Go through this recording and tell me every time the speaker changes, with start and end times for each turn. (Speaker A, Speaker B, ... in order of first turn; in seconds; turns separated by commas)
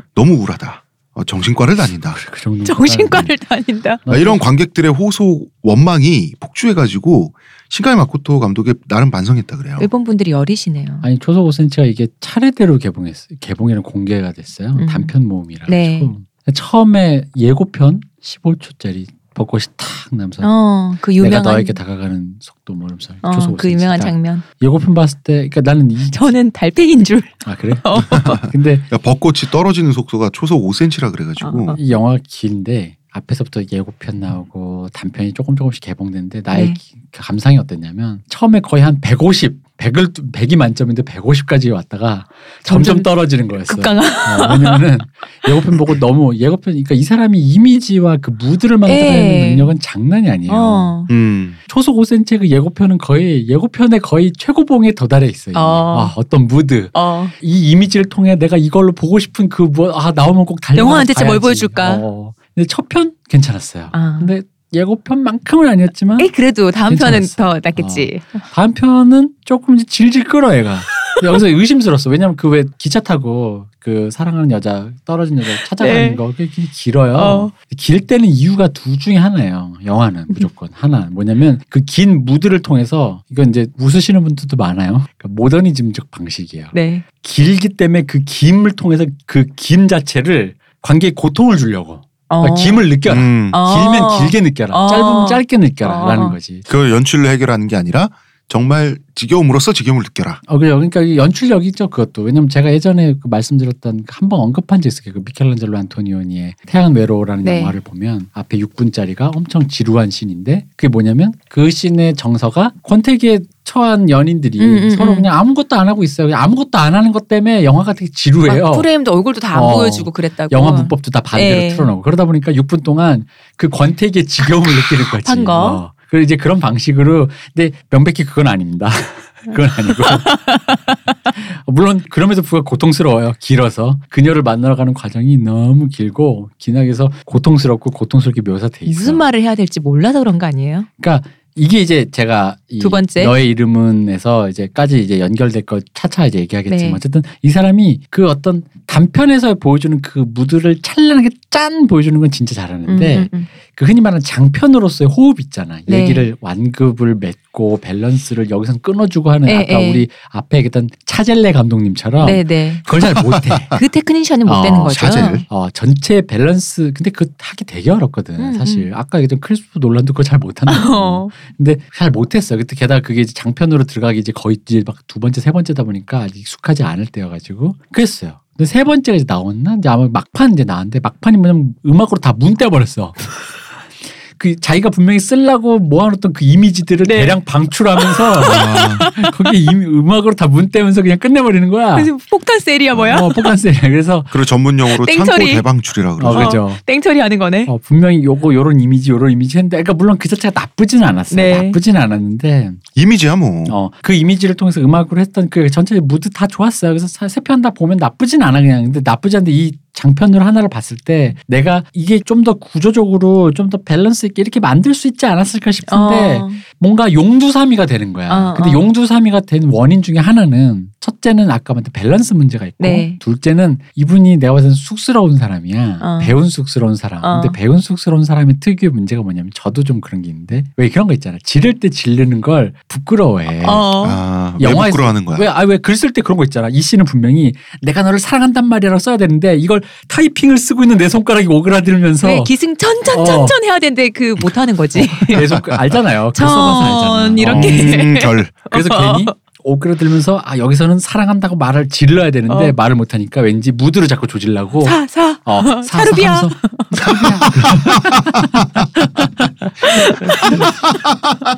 Speaker A: 0.1-2.2, Speaker B: 2.1-3.3, Speaker C: 2.6-4.0, Speaker B: 4.0-4.4, Speaker A: 4.1-9.9, Speaker C: 9.8-11.0, Speaker B: 11.0-20.5, Speaker C: 14.8-15.1, Speaker C: 15.7-16.1, Speaker C: 20.4-21.8, Speaker B: 21.2-26.3, Speaker C: 23.2-24.4, Speaker C: 26.1-28.4, Speaker B: 27.4-28.9, Speaker A: 28.1-31.8, Speaker C: 31.4-31.8, Speaker B: 31.7-50.9, Speaker C: 36.5-36.8, Speaker C: 42.6-44.9, Speaker C: 45.5-45.9, Speaker C: 48.9-49.7, Speaker C: 50.5-51.1, Speaker A: 51.1-51.6, Speaker B: 51.6-66.3, Speaker C: 55.5-56.1, Speaker C: 56.9-57.3, Speaker C: 60.7-62.0, Speaker C: 63.9-64.3, Speaker C: 66.2-68.5, Speaker B: 66.9-96.7, Speaker C: 75.8-76.2, Speaker C: 77.1-77.5, Speaker C: 86.7-87.0, Speaker C: 92.3-96.3, Speaker A: 93.0-93.6, Speaker A: 96.7-100.4, Speaker B: 100.5-118.9, Speaker C: 107.4-107.8, Speaker C: 114.6-115.3, Speaker C: 118.5-121.9, Speaker B: 119.5-130.6, Speaker C: 124.6-125.8, Speaker C: 130.0-130.9, Speaker B: 131.3-139.2, Speaker C: 138.8-140.9, Speaker B: 141.0-163.8, Speaker C: 142.8-143.4, Speaker C: 146.7-147.0, Speaker C: 152.9-153.5, Speaker C: 155.9-156.3, Speaker C: 159.4-160.1, Speaker C: 162.2-162.9, Speaker C: 163.7-165.4, Speaker B: 164.4-183.3, Speaker A: 164.9-165.4, Speaker C: 168.4-168.9, Speaker C: 170.7-171.3, Speaker B: 184.3-192.1, Speaker C: 187.0-187.4, Speaker C: 187.9-189.5, Speaker A: 188.4-189.1, Speaker C: 191.9-193.5, Speaker B: 193.0-194.3, Speaker A: 194.3-196.6, Speaker C: 194.9-195.7, Speaker B: 196.2-196.8, Speaker C: 196.3-197.7, Speaker B: 197.7-202.8, Speaker C: 201.3-201.8, Speaker A: 202.9-203.8, Speaker B: 203.7-233.9, Speaker C: 215.9-216.6, Speaker C: 218.3-218.8, Speaker C: 222.8-223.2, Speaker C: 226.0-226.3, Speaker C: 227.2-227.6, Speaker C: 233.6-234.2, Speaker A: 234.0-235.5, Speaker B: 234.6-242.5, Speaker C: 242.2-245.6, Speaker B: 243.1-243.6, Speaker B: 244.9-259.3, Speaker C: 246.3-249.3, Speaker A: 247.4-248.6, Speaker C: 252.5-252.7, Speaker C: 254.8-257.2, Speaker A: 257.1-258.6, Speaker C: 259.8-260.6, Speaker B: 259.8-260.8